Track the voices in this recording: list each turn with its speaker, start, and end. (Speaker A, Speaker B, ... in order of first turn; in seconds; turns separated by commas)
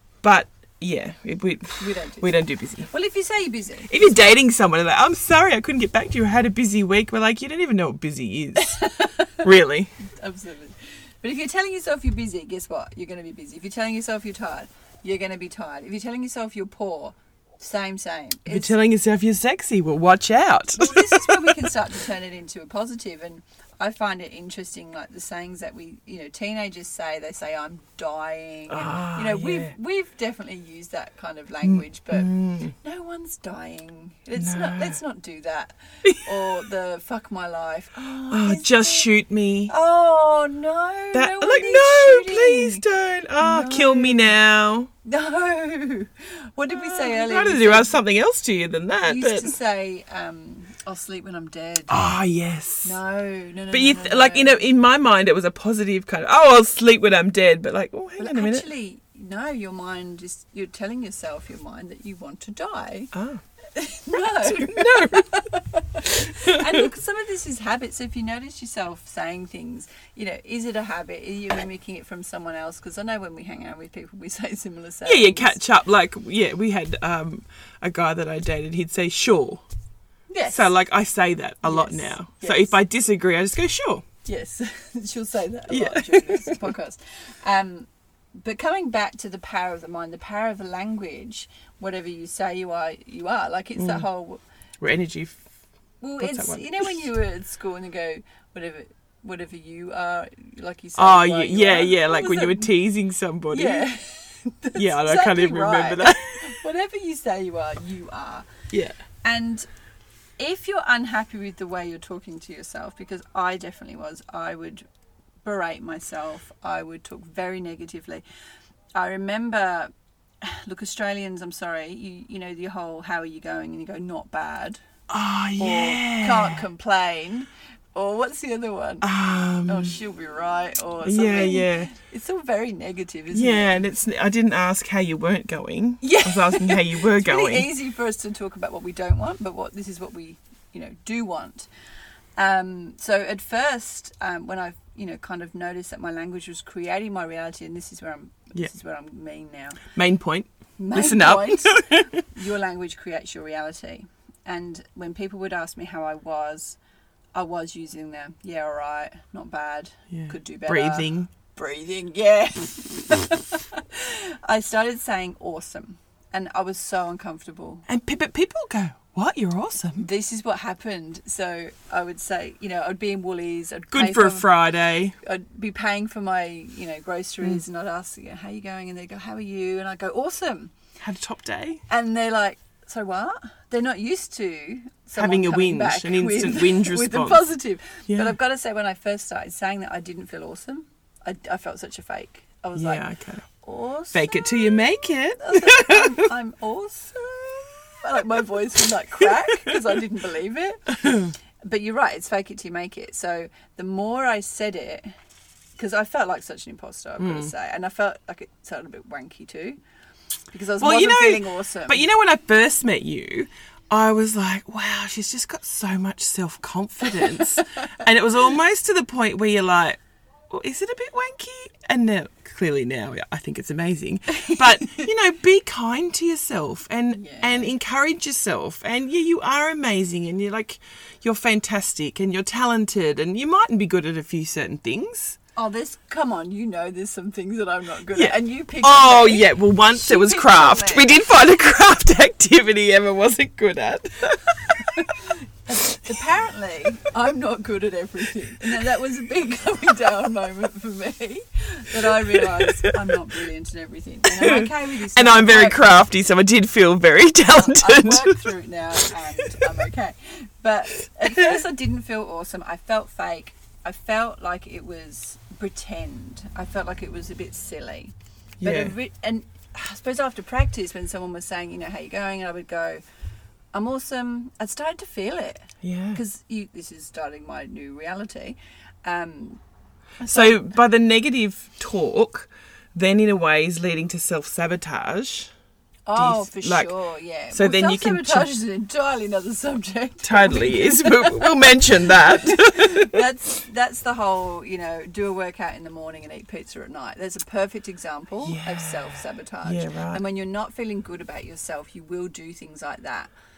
Speaker A: 0.2-2.9, Speaker B: 1.8-4.3, Speaker A: 3.9-8.9, Speaker B: 8.6-9.4, Speaker A: 9.4-9.9, Speaker B: 10.0-18.7, Speaker A: 18.5-21.6, Speaker B: 20.7-39.1, Speaker A: 28.7-29.7, Speaker A: 31.6-32.7, Speaker A: 34.4-35.0, Speaker A: 36.0-36.4, Speaker A: 38.3-39.7, Speaker B: 39.7-42.8, Speaker A: 41.1-44.9, Speaker B: 43.4-44.3, Speaker B: 45.0-47.9, Speaker A: 46.7-49.5, Speaker B: 49.0-52.1, Speaker A: 51.9-53.0, Speaker B: 52.8-54.6, Speaker A: 53.7-58.7, Speaker B: 58.2-63.1, Speaker A: 63.1-63.4, Speaker B: 63.7-75.6, Speaker A: 64.2-65.3, Speaker A: 66.2-66.9, Speaker A: 75.0-79.6, Speaker B: 80.3-80.7, Speaker A: 80.5-84.0, Speaker B: 81.6-82.8, Speaker B: 84.2-87.9, Speaker A: 85.7-86.7, Speaker B: 88.4-94.4, Speaker A: 93.8-94.0, Speaker A: 94.8-95.5, Speaker B: 96.0-102.7, Speaker A: 96.2-96.9, Speaker A: 101.0-103.8, Speaker B: 103.5-108.5, Speaker A: 104.7-106.5, Speaker A: 108.7-109.0, Speaker B: 109.2-109.7, Speaker B: 110.4-114.8, Speaker B: 115.4-118.2, Speaker B: 119.0-119.9, Speaker B: 120.4-124.8, Speaker A: 125.1-126.6, Speaker B: 125.6-129.1, Speaker A: 129.0-130.0, Speaker B: 129.7-133.8, Speaker A: 131.0-131.9, Speaker A: 133.3-137.7, Speaker B: 136.0-141.7, Speaker B: 142.4-149.9, Speaker A: 149.9-152.2, Speaker B: 150.8-156.8, Speaker B: 157.3-167.8, Speaker A: 160.1-161.3, Speaker A: 167.9-170.0, Speaker B: 170.0-174.5, Speaker A: 173.9-175.1, Speaker B: 175.2-180.7, Speaker A: 181.0-181.8, Speaker B: 181.9-193.0, Speaker A: 185.2-187.4, Speaker A: 192.7-193.4, Speaker B: 193.6-205.1, Speaker A: 194.1-196.2, Speaker A: 199.3-199.7, Speaker B: 205.8-209.8, Speaker A: 207.2-207.5, Speaker B: 210.5-212.1, Speaker A: 210.8-235.3, Speaker B: 217.2-217.8, Speaker B: 227.1-227.7, Speaker B: 235.6-241.1, Speaker A: 238.1-245.2, Speaker B: 244.8-255.8, Speaker A: 252.3-252.9, Speaker A: 254.3-258.5, Speaker B: 257.5-273.0, Speaker A: 268.6-268.9, Speaker B: 273.7-279.6, Speaker A: 275.8-276.2, Speaker B: 280.2-280.7, Speaker A: 280.2-285.5, Speaker B: 286.1-303.3, Speaker A: 286.1-286.9, Speaker A: 287.5-288.5, Speaker A: 290.2-293.2, Speaker A: 298.4-300.2